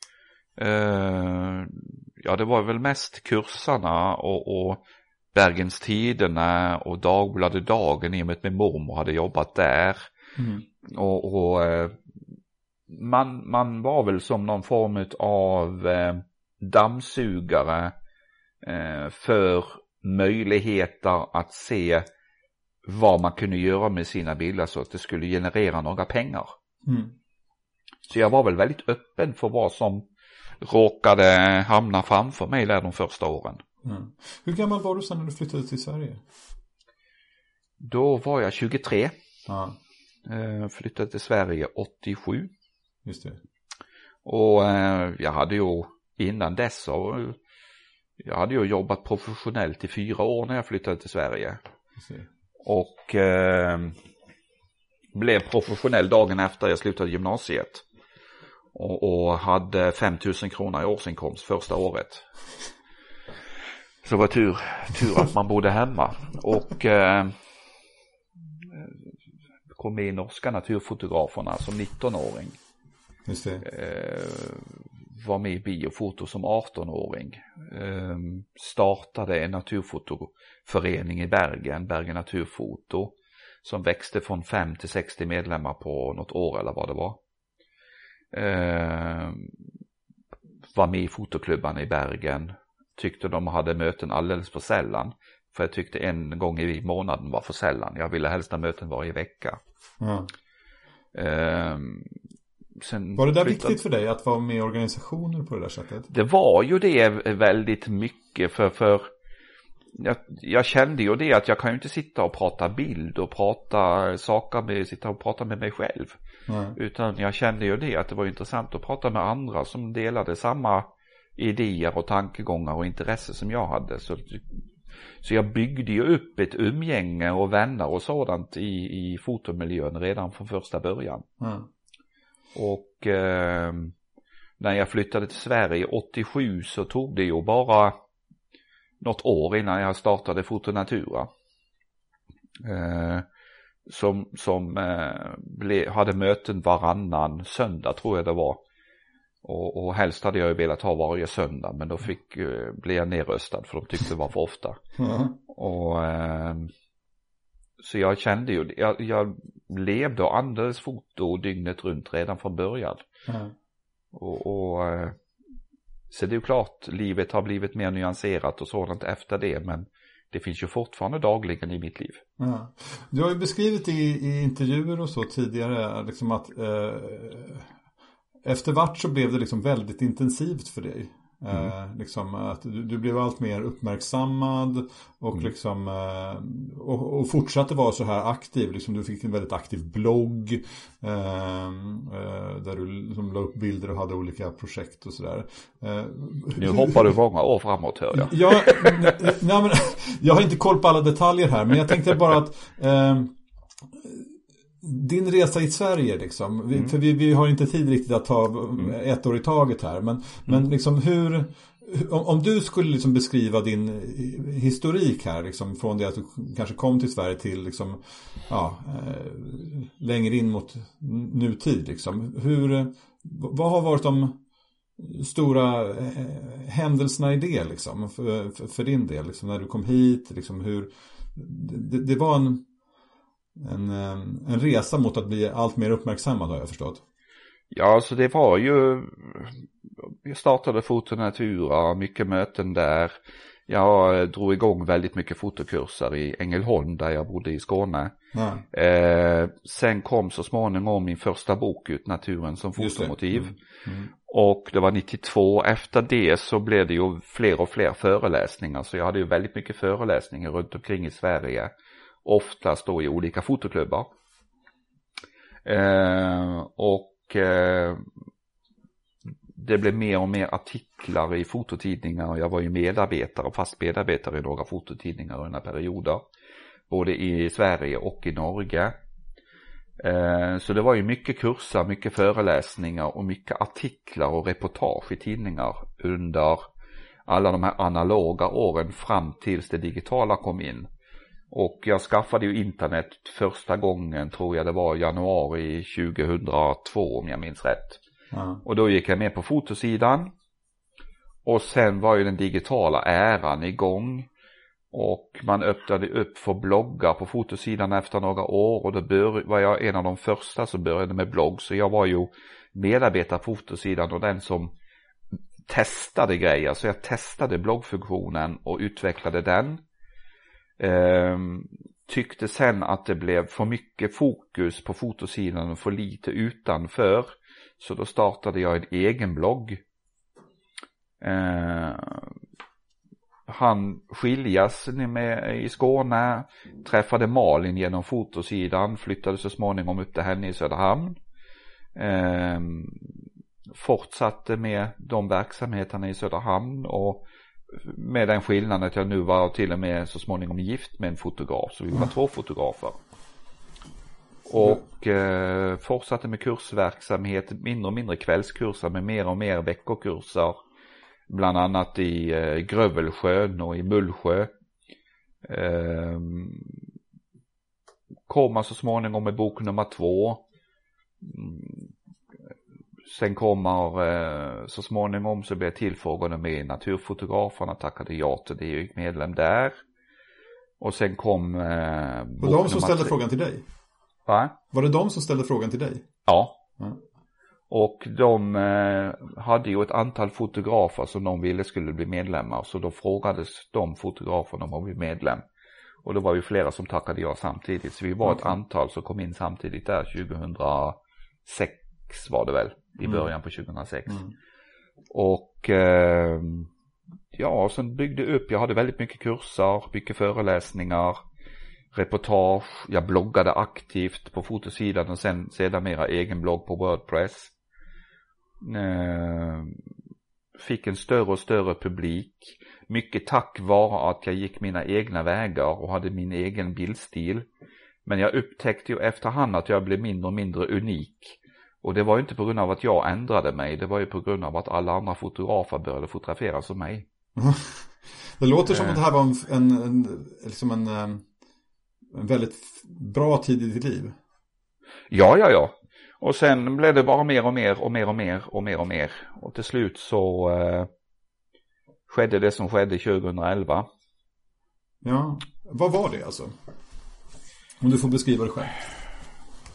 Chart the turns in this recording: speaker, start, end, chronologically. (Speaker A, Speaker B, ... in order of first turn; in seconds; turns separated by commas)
Speaker A: 0.6-4.8, Speaker A: 5.3-10.1, Speaker B: 10.4-10.7, Speaker A: 10.8-12.0, Speaker A: 12.9-17.9, Speaker A: 18.6-22.1, Speaker A: 22.9-26.5, Speaker B: 26.9-27.1, Speaker A: 28.1-30.1, Speaker A: 30.6-33.6, Speaker B: 33.8-36.2, Speaker A: 37.8-39.1, Speaker B: 39.5-39.8, Speaker A: 40.3-42.5, Speaker B: 43.0-43.4, Speaker A: 44.2-47.4, Speaker A: 48.2-51.6, Speaker B: 52.0-52.3, Speaker A: 52.6-54.0, Speaker A: 55.1-57.8, Speaker A: 58.7-62.3, Speaker A: 64.0-67.3, Speaker A: 69.7-72.6, Speaker B: 73.3-73.7, Speaker A: 73.6-87.2, Speaker A: 88.3-89.5, Speaker A: 90.8-99.6, Speaker B: 100.0-100.3, Speaker A: 101.2-102.2, Speaker A: 102.8-103.8, Speaker B: 103.2-106.1, Speaker A: 106.1-109.1, Speaker A: 110.0-116.2, Speaker B: 116.5-116.8, Speaker A: 116.8-124.4, Speaker A: 125.2-131.3, Speaker B: 131.4-131.7, Speaker A: 132.6-133.9, Speaker A: 134.6-138.0, Speaker A: 139.0-141.3, Speaker A: 142.6-143.2, Speaker A: 143.9-148.6, Speaker A: 149.4-154.8, Speaker B: 155.0-155.3, Speaker A: 155.5-156.7, Speaker A: 157.8-163.1, Speaker B: 163.3-163.5, Speaker A: 164.1-165.2, Speaker A: 166.1-172.2, Speaker B: 172.4-177.7, Speaker B: 178.4-197.1, Speaker A: 196.6-199.1, Speaker B: 198.1-203.3, Speaker B: 203.9-204.3, Speaker B: 204.8-224.4, Speaker B: 225.0-232.6, Speaker B: 233.6-237.0, Speaker A: 237.7-243.2, Speaker A: 243.7-248.2, Speaker B: 248.3-248.7, Speaker A: 248.7-253.6, Speaker B: 252.8-254.1, Speaker A: 254.1-261.7, Speaker A: 262.2-264.1, Speaker A: 265.6-268.1, Speaker A: 269.6-276.2, Speaker A: 276.9-278.9, Speaker A: 280.0-286.6, Speaker A: 287.3-290.9, Speaker A: 291.5-298.0, Speaker B: 298.3-298.6, Speaker A: 298.6-300.3, Speaker A: 301.5-304.3, Speaker A: 304.9-314.7, Speaker A: 315.7-319.8, Speaker A: 320.8-329.8, Speaker A: 331.2-332.3, Speaker A: 333.5-341.2, Speaker A: 341.9-343.1, Speaker A: 343.7-353.0, Speaker A: 354.5-360.6, Speaker B: 354.5-354.8, Speaker A: 361.3-364.5, Speaker A: 365.4-366.8, Speaker A: 368.3-370.4, Speaker A: 371.2-371.9, Speaker A: 373.1-379.8, Speaker A: 380.8-383.1, Speaker B: 382.4-383.6, Speaker A: 384.3-384.6, Speaker B: 384.7-386.1, Speaker A: 386.3-386.6, Speaker A: 387.7-395.4, Speaker A: 396.0-404.2, Speaker B: 398.2-398.5, Speaker A: 405.1-406.7, Speaker A: 407.3-411.2, Speaker A: 411.9-417.5, Speaker A: 418.6-419.8, Speaker A: 420.6-427.5, Speaker A: 428.1-437.1, Speaker B: 437.4-441.3, Speaker A: 438.7-439.0, Speaker B: 442.1-444.2, Speaker A: 445.1-450.9, Speaker A: 452.1-453.9, Speaker B: 455.0-456.6, Speaker B: 457.8-458.7